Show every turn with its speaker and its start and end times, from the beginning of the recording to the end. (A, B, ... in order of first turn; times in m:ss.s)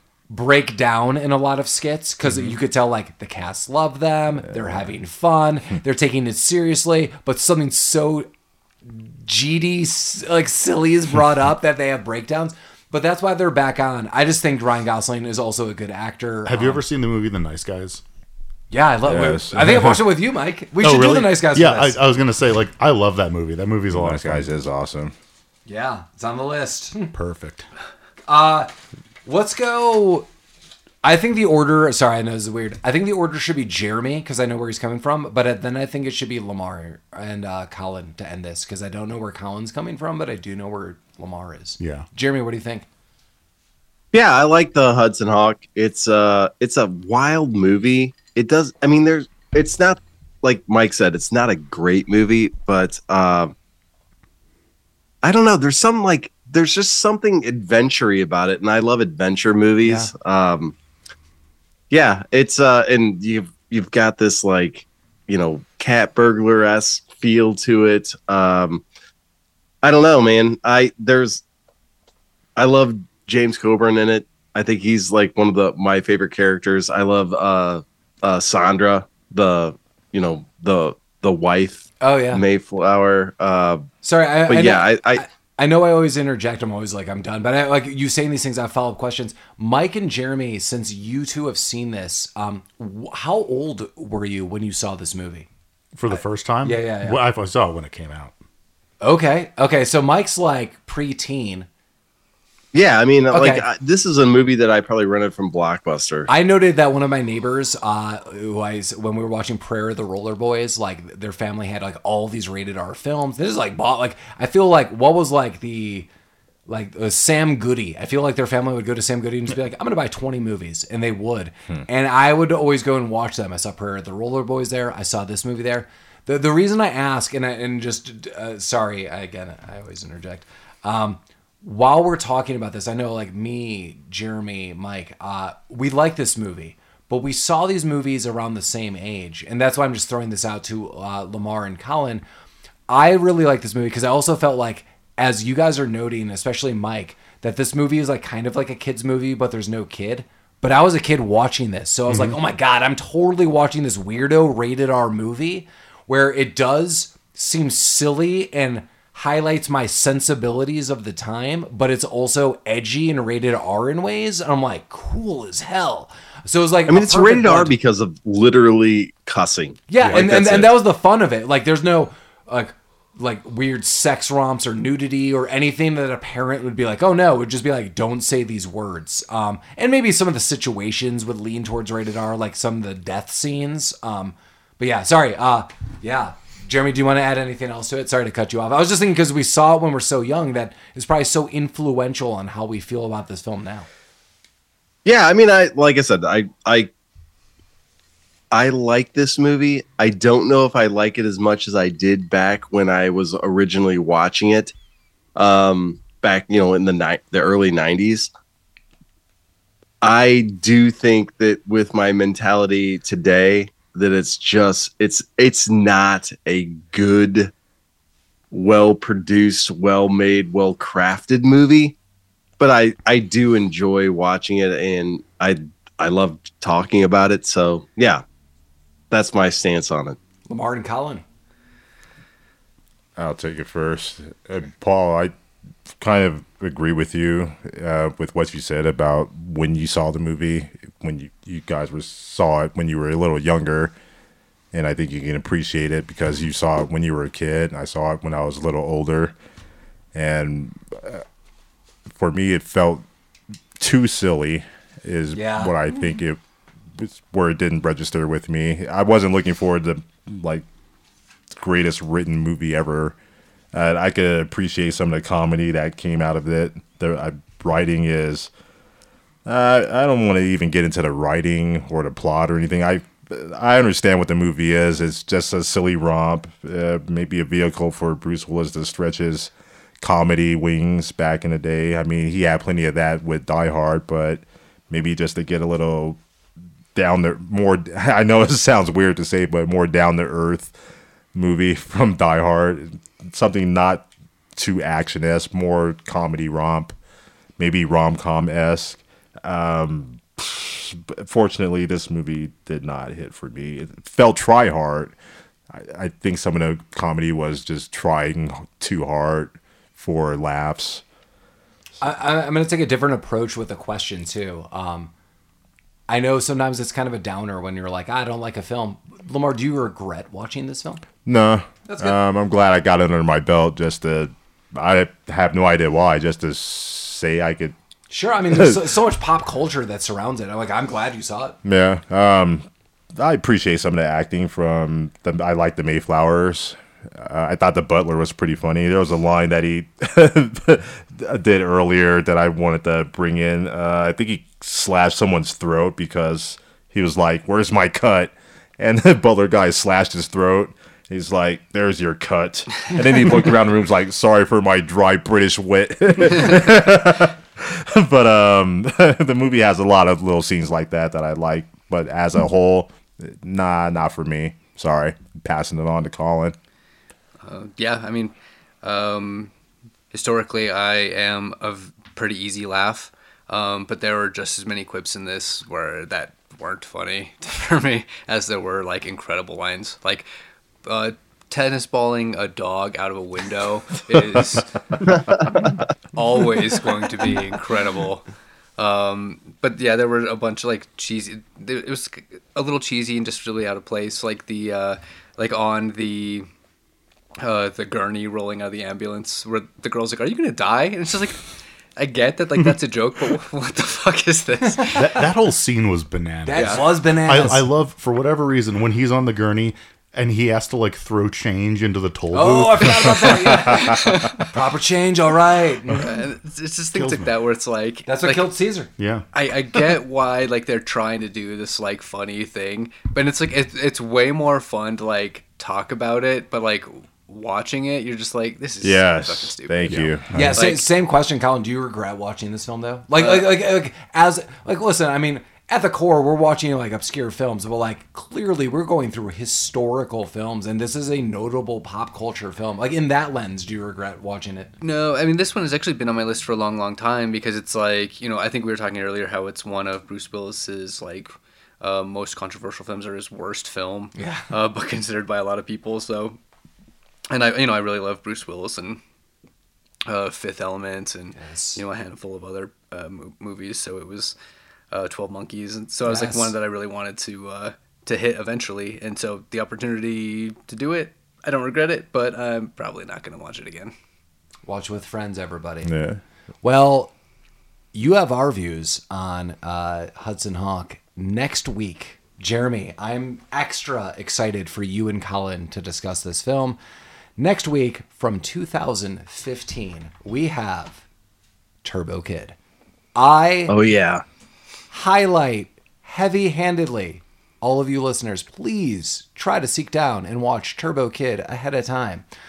0:00.3-0:08.3 A
0:08.9-0:16.8 A
0:16.4-0:18.0 B
0:18.7-0:22.0 A
0:19.0-0:20.0 C
0:20.8-0:24.5 B
0:23.9-0:25.1 C
0:25.6-0:27.1 A
0:27.1-0:27.6 B
0:28.3-0:28.7 A
0:29.2-0:30.3 A
0:31.0-0:42.8 A
0:41.8-0:42.0 B
0:44.1-0:53.5 D
0:55.2-1:00.7 D
0:59.8-1:00.1 A
1:01.9-1:08.8 D
1:09.8-1:11.4 D
1:12.6-1:23.8 D
1:22.0-1:22.4 A
1:24.0-1:35.5 A
1:24.5-1:25.2 D
1:35.9-1:38.3 B
1:36.1-1:37.2 A
1:39.0-1:41.7 A
1:42.7-1:46.3 D
1:43.3-1:43.7 A
1:46.3-1:56.1 A
1:56.7-2:22.2 A
2:22.9-2:47.7 A
2:32.1-2:32.4 B
2:46.9-2:50.7 D
2:49.9-3:13.9 A
3:15.0-3:16.9 D
3:18.5-3:24.7 D
3:25.4-3:28.3 D
3:30.0-3:37.5 D
3:38.5-3:42.0 D
3:42.6-3:48.2 D
3:49.1-3:50.2 D
3:50.5-3:51.2 A
3:53.2-3:55.3 C
3:56.0-4:03.9 C
4:04.7-4:09.3 C
4:10.1-4:11.2 C
4:12.1-4:13.0 C
4:13.8-4:16.4 C
4:15.3-4:16.0 A
4:16.9-4:20.6 C
4:21.5-4:23.2 C
4:23.7-4:28.5 C
4:29.4-4:46.2 C
4:46.9-4:50.7 C
4:51.3-4:56.9 C
4:57.6-5:05.2 C
5:05.7-5:11.0 C
5:12.0-5:15.1 A
5:16.1-5:21.0 A
5:21.2-5:27.7 C
5:21.9-5:22.2 A
5:28.1-5:31.6 A
5:28.5-5:28.8 C
5:31.6-6:06.6 C
6:07.4-6:09.5 E
6:10.1-6:20.2 E
6:20.8-6:36.5 E
6:25.2-6:25.7 D
6:37.4-6:41.4 E
6:42.0-6:45.2 E
6:44.9-6:53.2 B
6:46.4-6:47.7 A
6:46.5-6:46.8 E
6:52.3-6:56.1 A
6:53.6-6:54.4 E
6:55.9-6:58.5 E
6:55.9-6:56.2 B
6:56.9-6:57.3 B
6:58.0-6:58.9 A
6:59.0-6:59.2 B
6:59.3-7:10.9 E
7:08.8-7:10.4 C
7:10.3-7:10.6 B
7:10.3-7:24.7 A
7:13.2-7:13.5 E
7:24.8-7:36.4 E
7:34.2-7:34.5 A
7:37.3-7:39.0 E
7:40.0-7:44.3 E
7:41.3-7:41.8 A
7:44.9-7:53.9 E
7:46.0-7:46.5 A
7:54.6-7:55.9 A
7:55.8-7:56.2 C
7:56.6-7:57.1 A
7:57.9-8:06.8 A
8:07.4-8:11.0 A
8:11.8-8:12.6 A
8:13.1-8:13.8 A
8:13.7-8:14.2 D
8:14.9-8:22.2 A